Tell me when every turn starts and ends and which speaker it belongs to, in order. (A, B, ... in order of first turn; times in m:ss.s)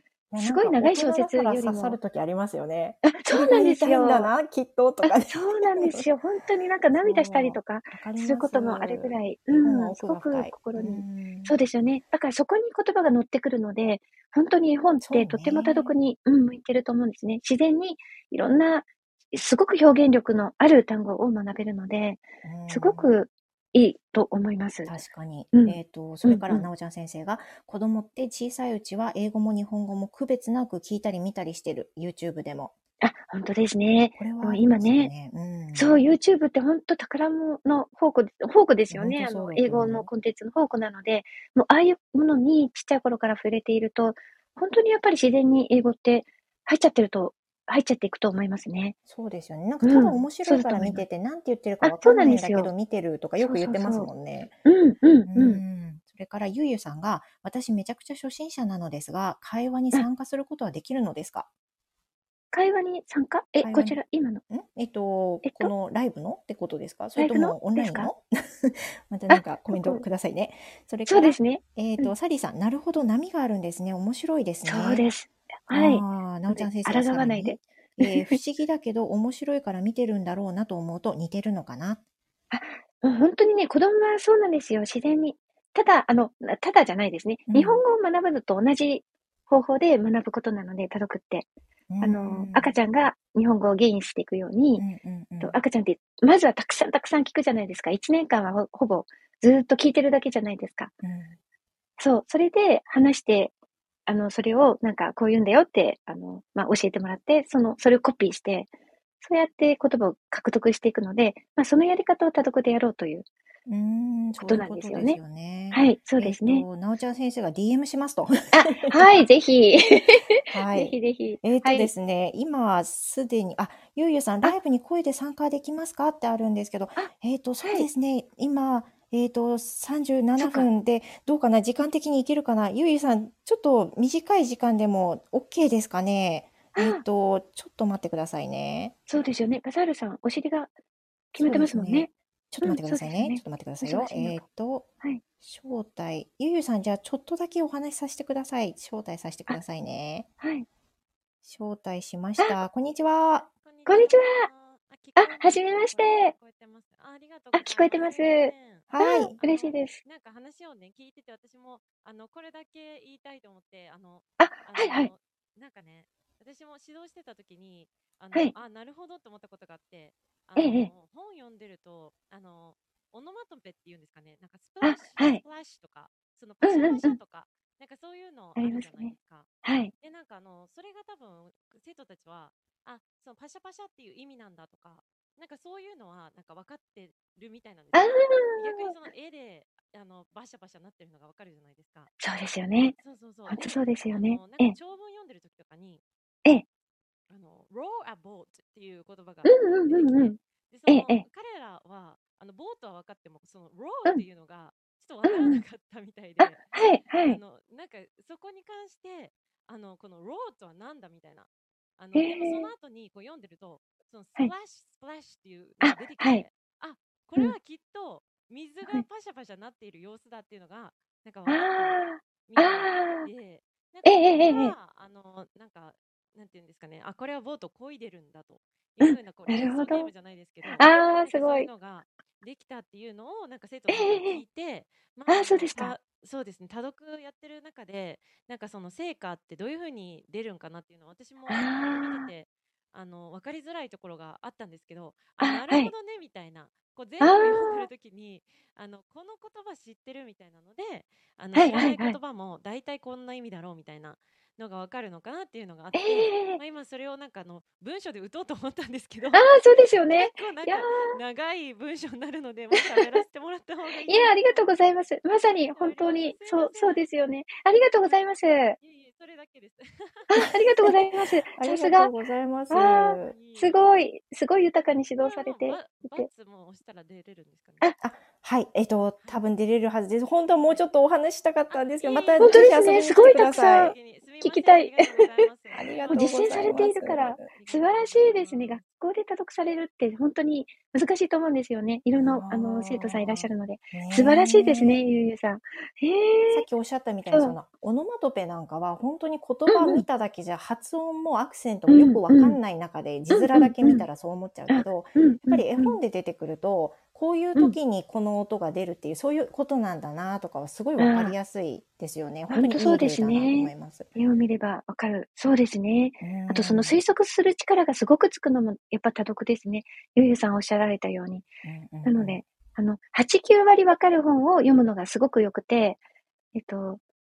0:00.3-0:06.1 A
0:00.4-0:02.0 B
0:03.0-0:04.3 B
0:05.0-0:24.9 B
0:07.0-0:11.5 A
0:15.0-0:16.0 A
0:22.4-0:23.1 A
0:24.9-0:32.7 A
0:25.5-0:26.7 B
0:33.0-0:35.1 B
0:34.2-0:36.1 A
0:35.7-0:49.0 B
0:38.9-0:40.1 A
0:49.1-0:54.6 A
0:49.8-0:51.0 B
0:51.8-0:52.7 B
0:53.4-0:54.1 B
0:54.6-0:55.6 B
0:55.3-1:01.5 A
1:02.5-1:04.4 B
1:03.6-1:04.0 A
1:04.5-1:15.0 A
1:05.4-1:05.7 B
1:07.2-1:08.1 B
1:09.3-1:10.0 B
1:11.1-1:12.1 B
1:14.6-1:18.4 B
1:15.7-1:22.0 A
1:22.5-1:31.5 B
1:27.5-1:27.8 A
1:31.9-1:32.7 A
1:32.0-1:34.9 B
1:34.8-1:35.6 A
1:35.4-1:40.9 B
1:41.0-1:41.4 A
1:42.0-1:43.5 B
1:44.1-1:48.7 B
1:49.2-1:53.3 B
1:53.7-1:59.3 A
1:54.4-1:55.2 B
1:55.7-1:56.7 B
1:58.5-2:01.9 B
2:00.5-2:19.0 A
2:07.6-2:07.9 B
2:10.4-2:10.7 B
2:16.8-2:17.0 B
2:19.1-2:20.7 B
2:21.3-2:24.4 B
2:21.4-2:24.9 A
2:25.4-2:30.3 A
2:30.4-2:30.7 B
2:31.4-2:33.5 A
2:33.6-3:12.1 C
2:33.9-2:34.5 B
2:35.2-2:36.3 B
2:37.5-2:40.0 B
2:38.9-2:39.4 A
2:44.4-2:45.1 B
2:50.6-2:50.9 B
2:54.8-2:55.4 B
2:56.6-2:57.2 B
2:58.6-2:59.9 B
3:07.9-3:08.9 B
3:12.2-3:13.0 B
3:13.0-3:16.0 C
3:13.5-3:14.8 B
3:17.3-4:19.6 C
3:19.5-3:21.2 B
3:25.2-3:25.6 B
3:26.4-3:27.4 B
3:32.2-3:32.7 B
3:35.8-3:36.4 B
3:41.5-3:43.3 B
3:44.0-3:44.8 B
3:49.0-3:50.1 B
3:50.7-3:51.7 B
3:53.9-3:54.4 B
3:55.3-3:56.0 B
4:01.5-4:02.3 B
4:05.4-4:05.9 B
4:07.2-4:07.9 B
4:11.5-4:12.2 B
4:15.9-4:16.6 B
4:19.3-4:21.2 B
4:20.1-4:24.7 C
4:22.8-4:23.1 B
4:23.9-4:28.8 B
4:25.7-4:27.0 C
4:28.8-4:30.9 C
4:30.3-4:32.1 B
4:31.5-4:33.3 A
4:32.7-4:36.3 B
4:33.2-4:33.8 C
4:35.2-4:38.0 C
4:38.0-4:44.0 A
4:41.7-4:48.8 C
4:42.4-4:45.5 B
4:45.7-4:47.5 A
4:46.1-4:56.7 B
4:52.1-4:55.0 A
4:56.5-5:14.1 A
4:59.7-5:00.0 B
5:01.9-5:02.6 B
5:03.3-5:04.0 B
5:04.7-5:06.0 B
5:11.0-5:11.4 B
5:12.5-5:21.5 B
5:16.2-5:17.0 A
5:21.6-5:22.4 A
5:22.0-5:26.0 B
5:26.6-5:27.0 B